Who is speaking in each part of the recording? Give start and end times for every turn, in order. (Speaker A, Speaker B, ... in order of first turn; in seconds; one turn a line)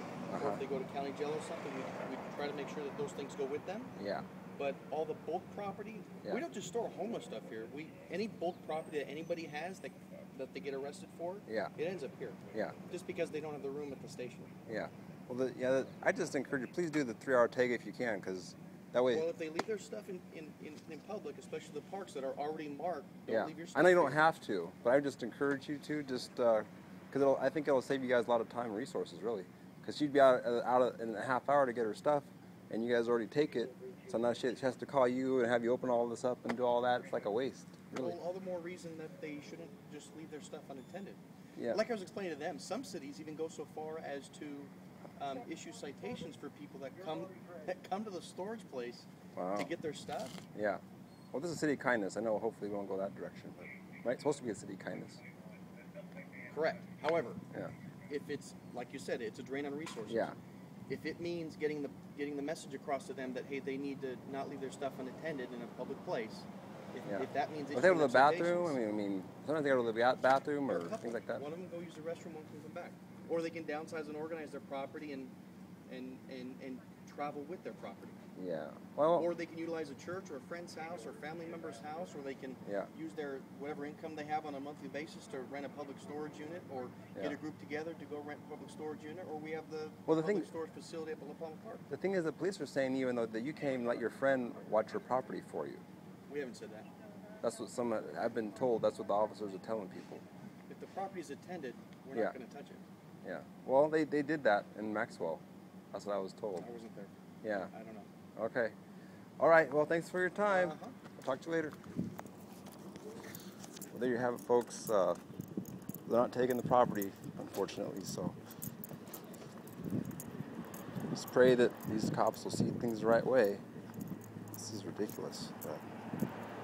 Speaker A: 0.3-0.6
Speaker B: 0.3-3.9
Speaker A: 4.0-4.2
Speaker B: 4.6-14.5
Speaker A: 14.7-19.3
Speaker B: 19.1-24.2
Speaker A: 23.3-38.2
Speaker B: 37.9-50.4
Speaker A: 49.4-49.7
Speaker A: 50.5-50.8
Speaker A: 51.3-55.2
Speaker B: 56.5-57.4
Speaker B: 58.1-60.3
Speaker A: 60.1-60.3
Speaker B: 60.9-68.8
Speaker A: 67.1-71.4
Speaker B: 70.7-75.3
Speaker B: 75.9-78.2
Speaker A: 78.3-79.3
Speaker B: 79.2-91.9
Speaker A: 90.1-90.5
Speaker A: 91.9-95.8
Speaker B: 96.3-96.9
Speaker A: 97.4-100.2
Speaker B: 100.7-102.8
Speaker A: 103.2-106.7
Speaker B: 106.6-108.1
Speaker A: 107.4-107.7
Speaker A: 108.3-108.7
Speaker A: 109.4-111.8
Speaker B: 110.5-111.0
Speaker A: 113.9-115.2
Speaker A: 116.0-118.3
Speaker A: 121.1-123.6
Speaker A: 124.5-125.8